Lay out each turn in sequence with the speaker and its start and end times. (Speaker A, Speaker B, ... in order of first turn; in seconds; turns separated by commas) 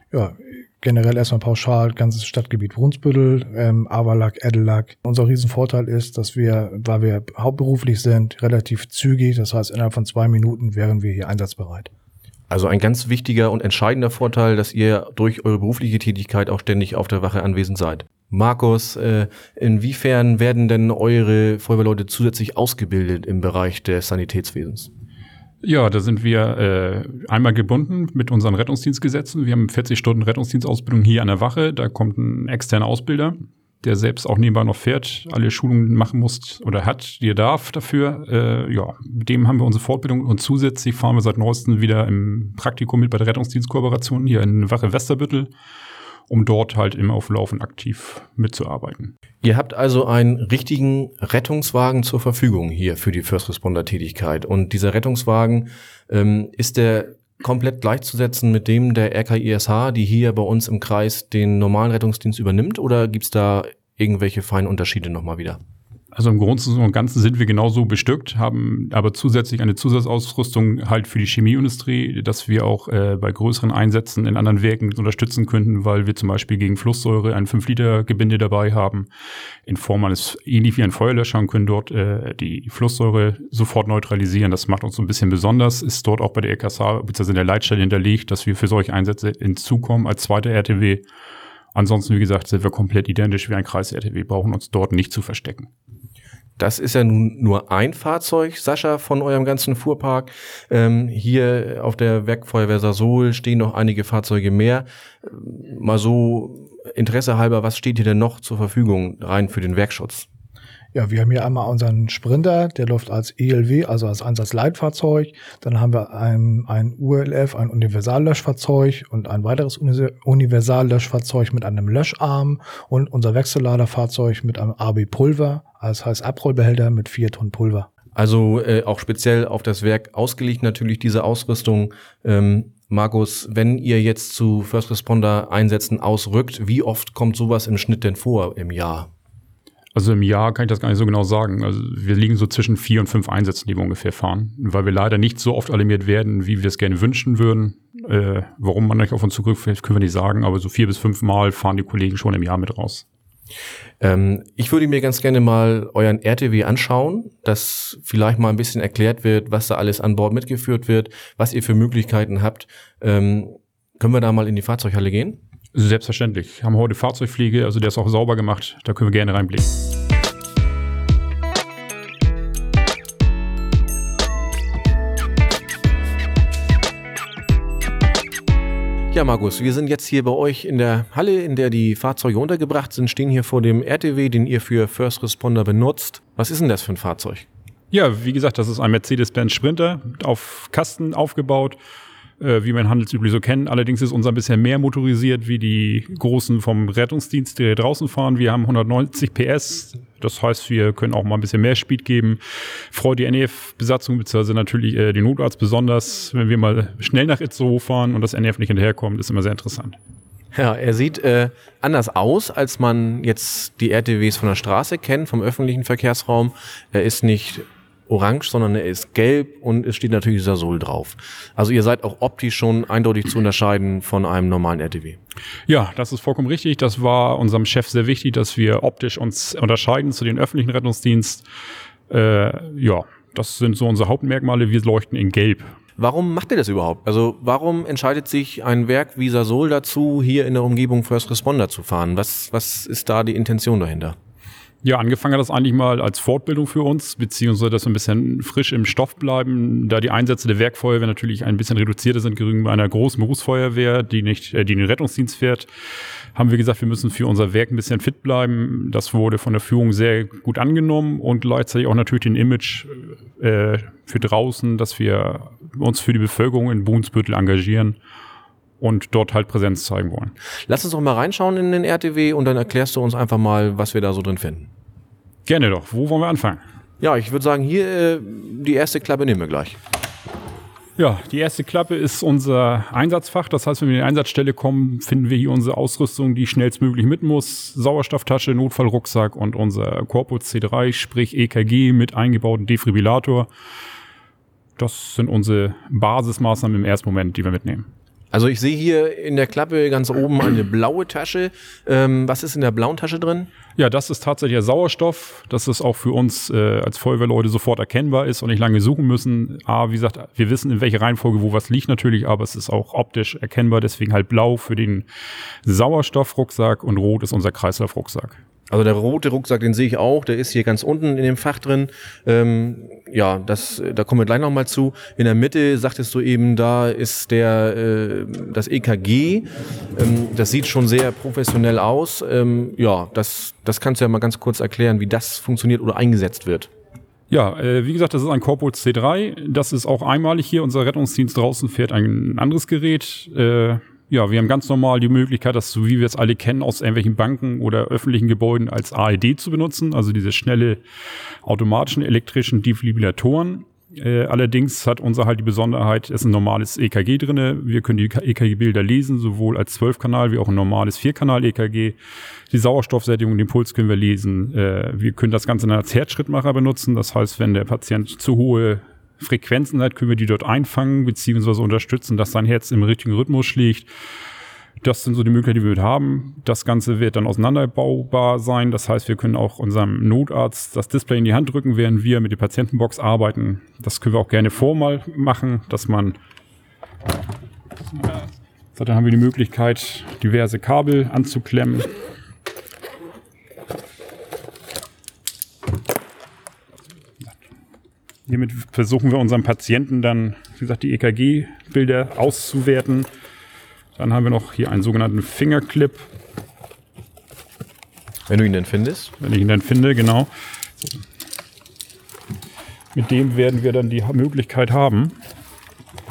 Speaker A: 0.1-11.9, Speaker B: 12.5-24.9, Speaker C: 25.6-45.5, Speaker C: 46.3-49.1, Speaker B: 49.4-65.6, Speaker C: 66.1-79.1, Speaker C: 79.7-91.0, Speaker C: 91.7-95.7, Speaker B: 96.6-110.3, Speaker A: 110.9-127.9, Speaker B: 128.1-139.1, Speaker C: 139.9-153.0, Speaker B: 154.0-165.4, Speaker C: 165.7-169.7, Speaker B: 179.1-187.4, Speaker C: 187.9-191.8, Speaker C: 192.4-210.0, Speaker B: 210.5-225.2, Speaker C: 225.7-231.4, Speaker C: 232.1-235.7, Speaker B: 236.0-244.2, Speaker C: 244.8-255.7, Speaker C: 256.3-268.0, Speaker C: 268.8-270.3, Speaker B: 270.7-274.7, Speaker C: 275.4-276.6, Speaker B: 277.0-279.8, Speaker C: 281.0-293.5, Speaker C: 294.8-297.9, Speaker B: 298.3-303.5, Speaker C: 303.8-315.1, Speaker C: 315.6-318.4, Speaker B: 318.7-336.7, Speaker C: 337.3-350.8, Speaker C: 351.4-362.0, Speaker C: 362.5-373.9, Speaker C: 374.8-386.2, Speaker C: 388.7-391.9, Speaker C: 398.3-403.1, Speaker C: 403.9-406.1, Speaker B: 408.3-409.1, Speaker C: 409.2-410.3, Speaker C: 412.9-415.1